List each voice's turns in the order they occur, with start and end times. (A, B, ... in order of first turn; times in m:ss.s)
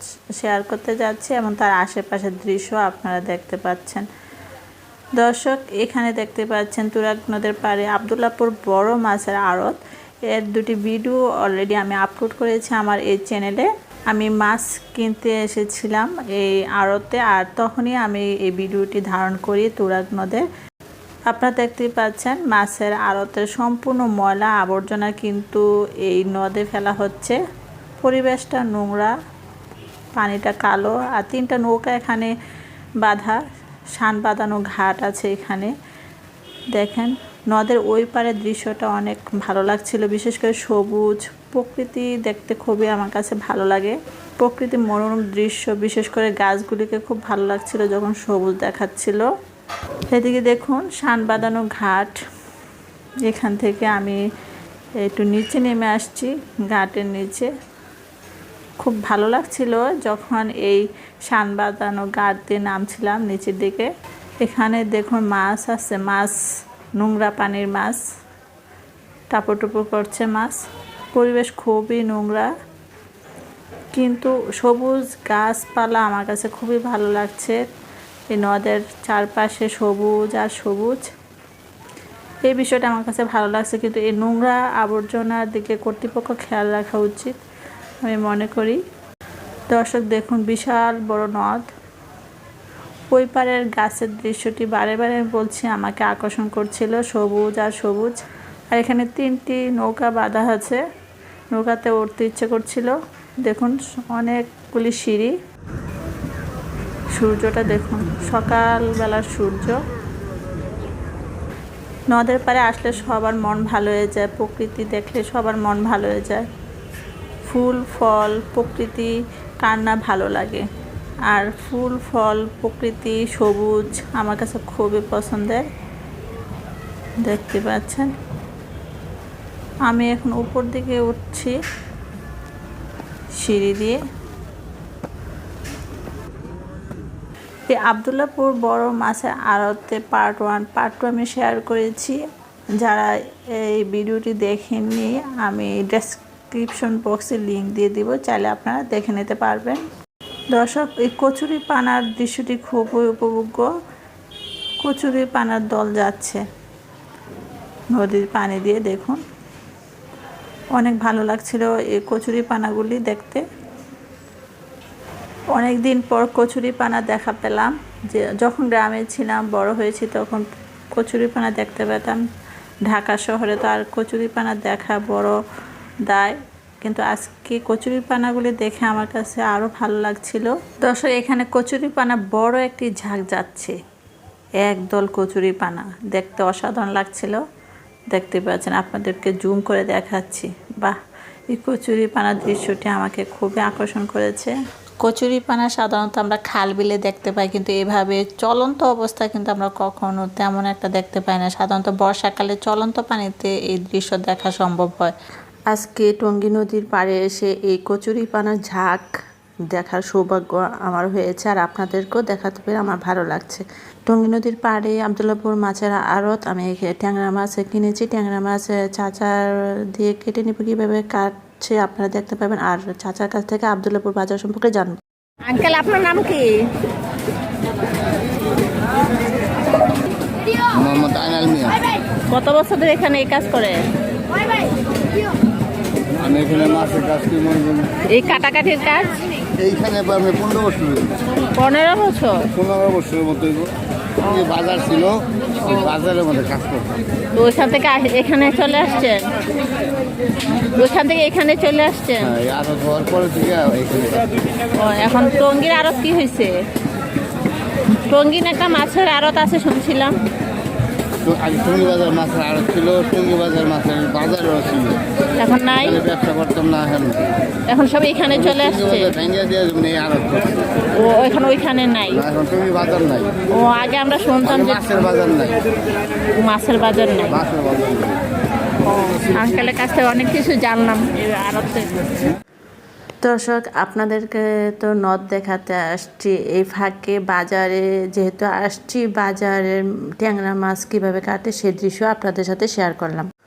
0:00.3-0:04.0 A
0:05.2-0:20.4 A
0:21.3-0:27.4 A
0:28.0-0:29.1 A
0:30.2-0:32.3 A
0:33.0-0:33.4 A
0:34.0-0:35.7 A
0:36.7-0:49.3 A
0:50.1-0:52.2 A
0:53.2-0:54.2 A
0:55.0-0:57.5 A
0:58.8-1:03.9 A
1:04.4-1:06.4 A
1:07.0-1:08.0 A
1:09.3-1:10.6 A
1:11.1-1:12.5 A
1:13.9-1:17.6 A
1:18.3-1:21.1 A
1:22.4-1:27.4 A
1:28.0-1:28.8 A
1:29.7-1:31.7 A
1:33.1-1:38.2 A
1:38.7-1:40.8 A
1:41.5-1:45.4 A
1:47.1-1:49.8 A
1:52.1-1:56.5 A
1:57.4-2:00.7 A
2:01.3-2:05.6 A
2:07.2-2:08.1 A
2:09.8-2:11.5 A
2:13.4-2:14.0 A
2:17.7-2:22.2 A
2:22.8-2:29.8 A
2:30.5-2:33.7 A
2:34.8-2:36.4 A
2:37.9-2:39.2 A
2:40.7-2:43.4 A
2:45.5-2:52.2 A
2:52.9-2:55.4 A
2:56.1-3:03.8 A
3:04.6-3:07.4 A
3:08.1-3:11.0 A
3:11.5-3:25.1 A
3:25.7-3:29.1 A
3:29.7-3:45.0 A
3:45.4-3:46.7 B
3:50.7-3:51.8 C
3:52.3-3:53.8 B
3:56.1-3:58.0 C
3:58.1-3:59.2 B
3:59.5-4:01.2 C
4:01.6-4:02.4 B
4:02.5-4:07.0 C
4:07.4-4:09.3 B
4:10.7-4:12.3 B
4:12.2-4:14.2 C
4:14.8-4:16.6 B
4:18.1-4:20.2 B
4:21.2-4:25.1 C
4:25.4-4:26.0 B
4:25.7-4:27.3 C
4:27.7-4:29.1 B
4:28.3-4:30.9 C
4:31.0-4:32.2 B
4:32.1-4:33.4 C
4:33.5-4:34.8 B
4:34.4-4:35.6 C
4:36.4-4:37.4 B
4:37.3-4:38.2 C
4:39.0-4:41.9 B
4:43.2-4:53.2 A